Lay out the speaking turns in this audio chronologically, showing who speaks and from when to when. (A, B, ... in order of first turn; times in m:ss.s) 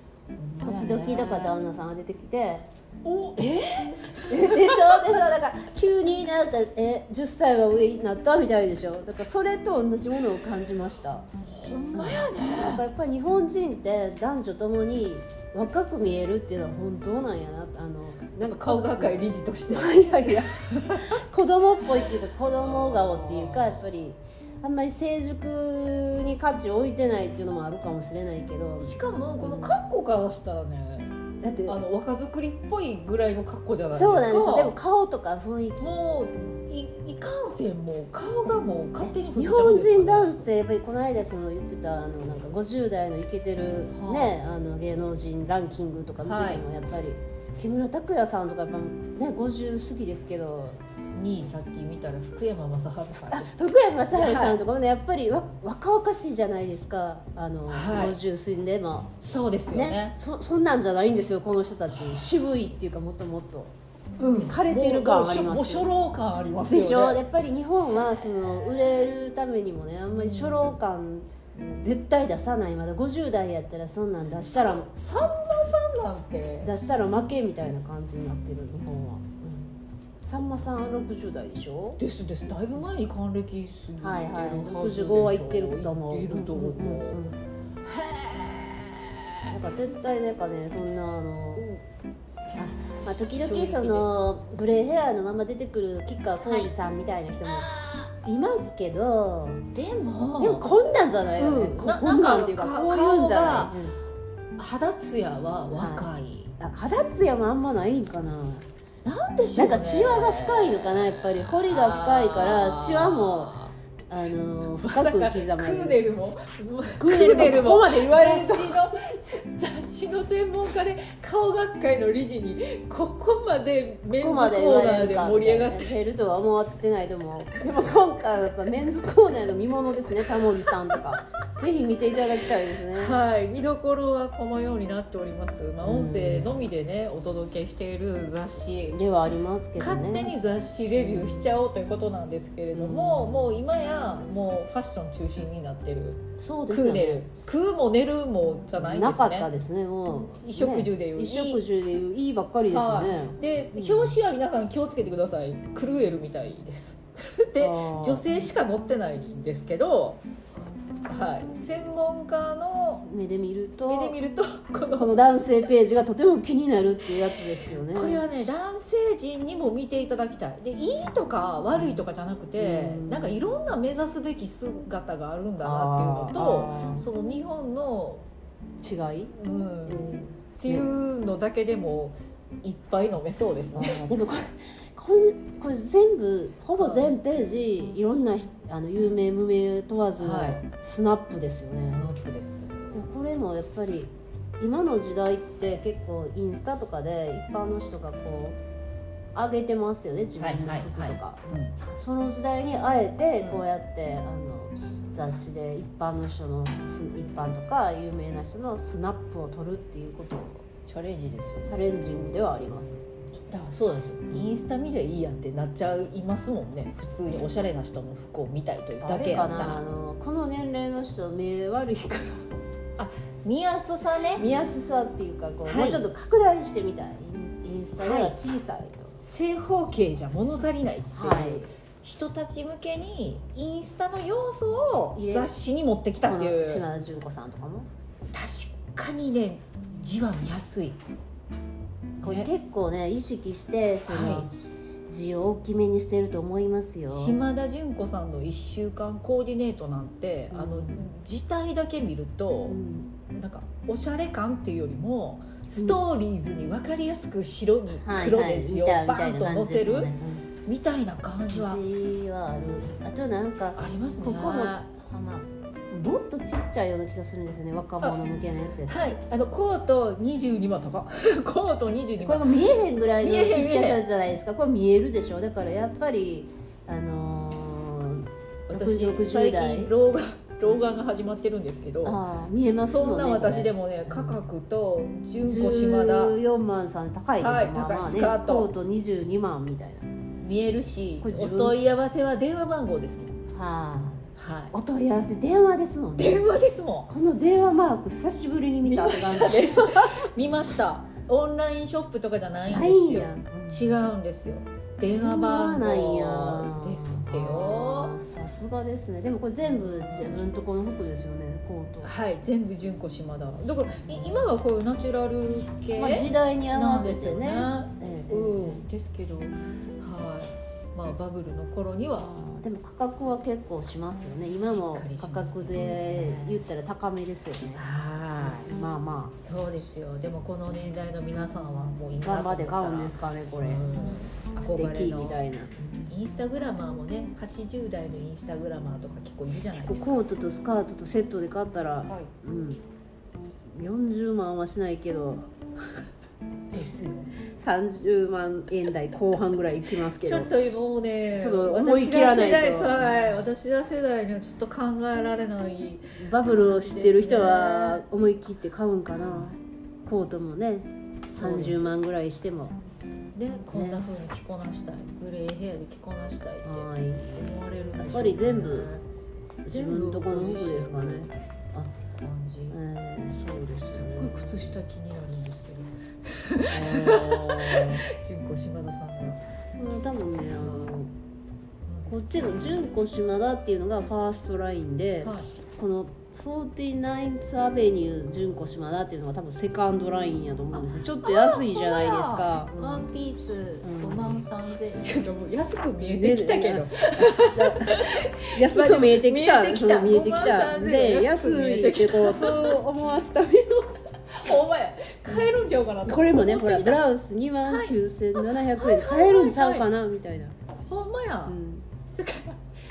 0:00.3-0:01.5 A
0:00.6-0:02.7 B
0:03.0-0:05.1 A
0:04.3-0:11.3 B
0:11.5-0:12.8 A
0:11.9-0:29.8 B
0:18.4-0:21.2 A
0:22.6-0:23.9 A
0:28.8-0:31.1 A
0:31.4-0:31.8 B
0:31.6-0:34.7 A
0:33.9-0:35.9 B
0:35.8-0:40.4 A
0:39.0-0:50.8 B
0:43.9-0:44.3 A
0:46.2-0:46.6 A
0:51.1-0:53.6 A
0:53.3-0:59.1 B
0:54.1-0:54.6 A
0:57.7-0:58.2 A
0:59.2-1:00.2 A
0:59.7-1:03.7 B
1:04.2-1:07.2 A
1:04.2-1:05.9 B
1:06.6-1:14.9 B
1:10.1-1:10.8 A
1:14.5-1:16.7 A
1:16.6-1:22.0 B
1:22.0-1:27.2 A
1:24.0-1:27.4 B
1:27.8-1:29.5 A
1:29.5-1:31.6 B
1:31.6-1:31.8 A
1:32.5-1:39.6 B
1:33.0-1:34.2 A
1:36.4-1:36.7 A
1:37.5-1:38.1 A
1:39.7-1:43.9 A
1:40.4-1:44.0 B
1:44.6-1:46.5 A
1:45.7-1:48.7 B
1:49.0-1:53.7 A
1:49.6-1:53.6 B
1:54.1-1:56.0 B
1:54.7-2:05.9 A
1:57.0-1:58.9 B
2:04.1-2:13.2 B
2:10.6-2:11.2 A
2:12.9-2:19.0 A
2:15.8-2:16.6 B
2:18.9-2:20.4 B
2:19.8-2:29.5 A
2:21.0-2:21.5 B
2:22.7-2:23.6 B
2:26.4-2:27.2 B
2:28.7-2:34.1 B
2:30.4-2:31.6 A
2:32.7-2:40.2 A
2:37.6-2:38.4 B
2:41.0-2:43.1 A
2:43.0-2:44.2 B
2:43.8-2:45.4 A
2:45.0-2:48.2 B
2:47.9-2:58.2 A
2:52.6-2:53.4 B
2:55.6-2:57.0 B
2:58.8-2:59.3 B
2:59.3-3:04.1 A
2:59.8-3:00.9 B
3:03.7-3:12.0 B
3:06.8-3:07.1 A
3:10.2-3:10.6 A
3:11.7-3:13.0 A
3:12.9-3:18.6 B
3:19.3-3:30.6 B
3:20.4-3:21.8 A
3:30.9-3:31.7 A
3:31.6-3:33.0 B
3:33.5-3:39.8 A
3:39.0-3:42.5 B
3:43.0-3:44.4 A
3:44.3-3:49.2 B
3:45.7-3:46.0 A
3:48.0-3:48.3 A
3:49.2-3:56.8 A
3:51.1-3:51.7 B
3:55.1-3:55.5 B
3:56.2-3:57.9 B
3:58.3-4:01.0 A
4:02.2-4:04.5 B
4:02.2-4:02.5 A
4:04.0-4:04.5 A
4:05.1-4:07.4 B
4:07.1-4:12.8 A
4:10.5-4:11.0 B
4:12.7-4:13.1 B
4:13.3-4:20.1 A
4:18.0-4:20.4 B
4:20.6-4:21.8 A
4:21.5-4:29.0 B
4:23.7-4:24.9 A
4:28.8-4:32.7 A
4:32.2-4:39.9 B
4:33.2-4:34.0 A
4:38.7-4:46.4 A
4:42.0-4:44.4 B
4:45.4-4:50.1 B
4:47.4-4:48.7 A
4:50.4-4:53.4 A
4:51.2-4:51.8 B
4:53.5-4:56.4 B
4:54.4-4:54.7 A
4:56.2-4:57.1 A
4:57.1-5:00.3 B
4:58.8-5:08.1 A
5:02.7-5:03.9 B
5:05.1-5:12.1 B
5:09.6-5:10.4 A
5:12.0-5:22.3 A
5:14.1-5:14.5 B
5:16.0-5:18.8 B
5:22.2-5:27.8 B
5:24.6-5:26.6 A
5:27.8-5:28.7 A
5:28.4-5:29.3 B
5:29.4-5:35.4 A
5:32.2-5:36.1 B
5:36.1-5:40.3 A
5:39.8-5:42.8 B
5:42.0-5:42.3 A
5:43.7-5:45.5 B
5:46.7-5:47.4 A
5:47.6-5:50.7 B
5:50.1-5:58.0 A
5:51.4-5:53.2 B
5:56.2-6:02.8 B
5:59.2-5:59.5 A
6:01.3-6:01.9 A
6:03.4-6:09.0 A
6:03.7-6:04.0 B
6:06.6-6:08.9 B
6:09.6-6:11.9 B
6:09.7-6:11.3 A
6:12.2-6:19.4 A
6:12.7-6:14.8 B
6:16.7-6:18.0 B
6:19.8-6:21.1 B
6:20.6-6:21.0 A
6:21.9-6:22.8 A
6:22.1-6:33.1 B
6:25.2-6:25.5 A
6:30.7-6:42.8 A
6:33.8-6:34.4 B
6:36.0-6:44.0 B
6:44.2-6:47.0 A
6:45.3-6:45.5 B
6:46.0-6:50.6 B
6:47.6-6:49.9 A
6:50.9-6:52.6 A
6:51.5-6:51.8 B